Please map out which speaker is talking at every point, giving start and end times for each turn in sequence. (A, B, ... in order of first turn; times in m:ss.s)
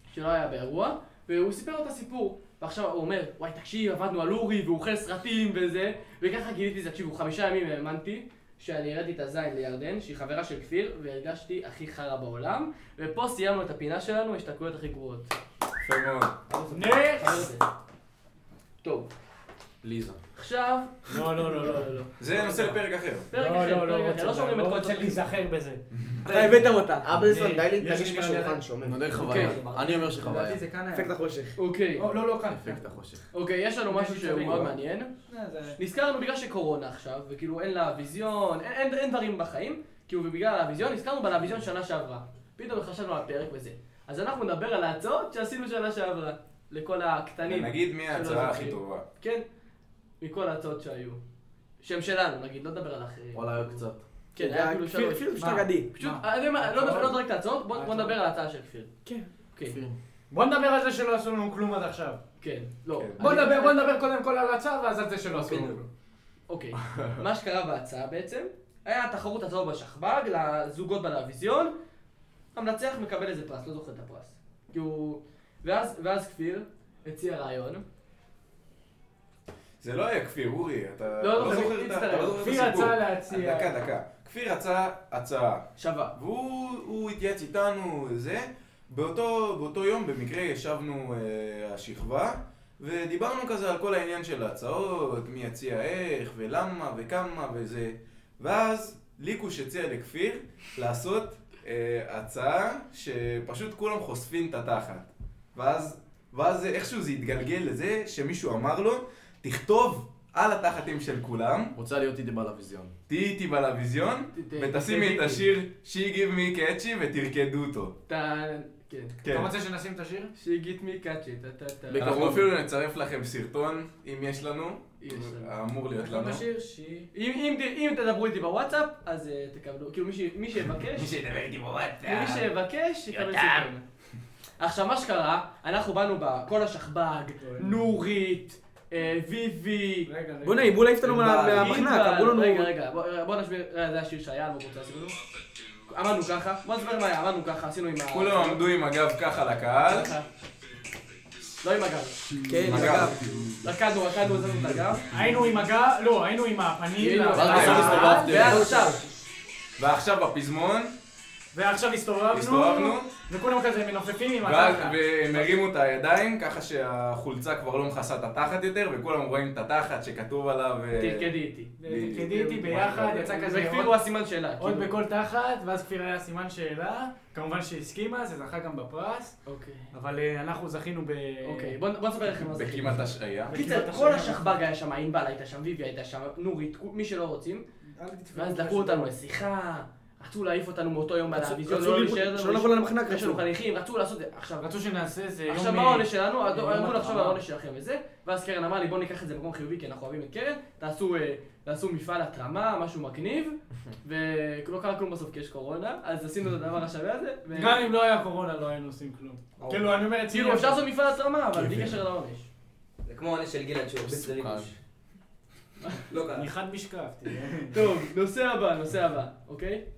0:00.1-0:15.3 A
0:15.8-0:16.4 B
0:16.5-0:17.6 A
0:16.7-0:17.5 C
0:18.8-0:19.1 A
0:19.8-0:20.2 D
0:20.3-0:22.7 A
0:21.1-0:22.7 C
0:22.2-0:23.3 B
0:23.3-0:25.3 A
0:23.3-0:28.6 C
0:26.2-0:27.1 E
0:27.0-0:29.2 F
0:28.8-0:30.6 D
0:29.2-0:30.0 G
0:29.2-0:29.6 A
0:30.0-0:31.1 C
0:30.9-0:31.5 E
0:31.6-0:32.1 A
0:32.0-0:32.8 C
0:32.5-0:33.3 D
0:33.3-0:35.1 A
0:33.9-0:34.8 C
0:35.3-0:35.8 C
0:35.8-0:49.4 A
0:47.4-0:49.0 B
0:50.2-0:51.2 A
0:51.8-0:53.8 A
0:53.3-0:54.0 D
0:54.3-0:55.3 A
0:54.4-0:55.9 E
0:55.4-0:57.2 C
0:55.9-0:58.9 A
0:57.7-0:58.2 C
0:59.5-0:59.8 A
0:59.7-1:00.0 D
1:00.3-1:02.2 C
1:02.4-1:03.8 A
1:03.0-1:03.4 B
1:03.2-1:05.9 C
1:05.4-1:05.8 A
1:06.5-1:11.7 A
1:06.9-1:07.2 D
1:12.5-1:17.8 A
1:19.8-1:51.8 B
1:21.2-1:22.6 A
1:22.4-1:23.7 C
1:51.7-1:52.9 D
1:53.1-1:57.9 B
1:54.3-1:55.5 A
1:58.1-1:59.2 A
1:59.2-1:59.5 B
1:59.3-2:00.3 C
2:00.4-2:02.3 A
2:01.9-2:02.5 D
2:01.9-2:06.4 B
2:05.0-2:05.5 A
2:06.0-2:07.1 C
2:07.1-2:11.1 A
2:11.1-2:12.4 G
2:12.0-2:13.8 A
2:13.1-2:13.6 G
2:14.6-2:20.1 A
2:17.4-2:18.0 C
2:20.0-2:20.8 C
2:20.4-2:22.7 E
2:21.0-2:21.8 B
2:21.4-2:25.2 A
2:25.9-2:28.6 A
2:28.1-2:30.1 B
2:29.8-2:30.3 A
2:31.6-2:32.3 A
2:32.4-2:33.3 E
2:32.6-2:33.5 B
2:33.6-2:35.1 A
2:35.1-2:38.8 C
2:37.0-2:39.0 A
2:37.3-2:39.0 D
2:39.8-2:40.9 B
2:41.5-2:45.4 C
2:42.3-2:43.1 B
2:44.4-2:53.0 B
2:51.0-2:51.7 A
2:51.8-2:54.0 C
2:52.3-2:55.0 A
2:54.6-2:59.4 C
2:59.4-2:59.9 A
2:59.9-3:01.8 C
3:01.4-3:07.6 A
3:02.3-3:03.6 B
3:03.5-3:04.5 C
3:08.0-3:09.1 C
3:08.3-3:14.7 A
3:11.3-3:13.4 E
3:14.6-3:17.4 C
3:15.5-3:27.9 A
3:27.5-3:30.8 C
3:30.3-3:32.5 A
3:31.5-3:32.0 D
3:33.0-3:34.7 G
3:34.0-3:34.7 D
3:36.1-3:36.5 G
3:36.3-3:37.9 C
3:37.7-3:39.8 A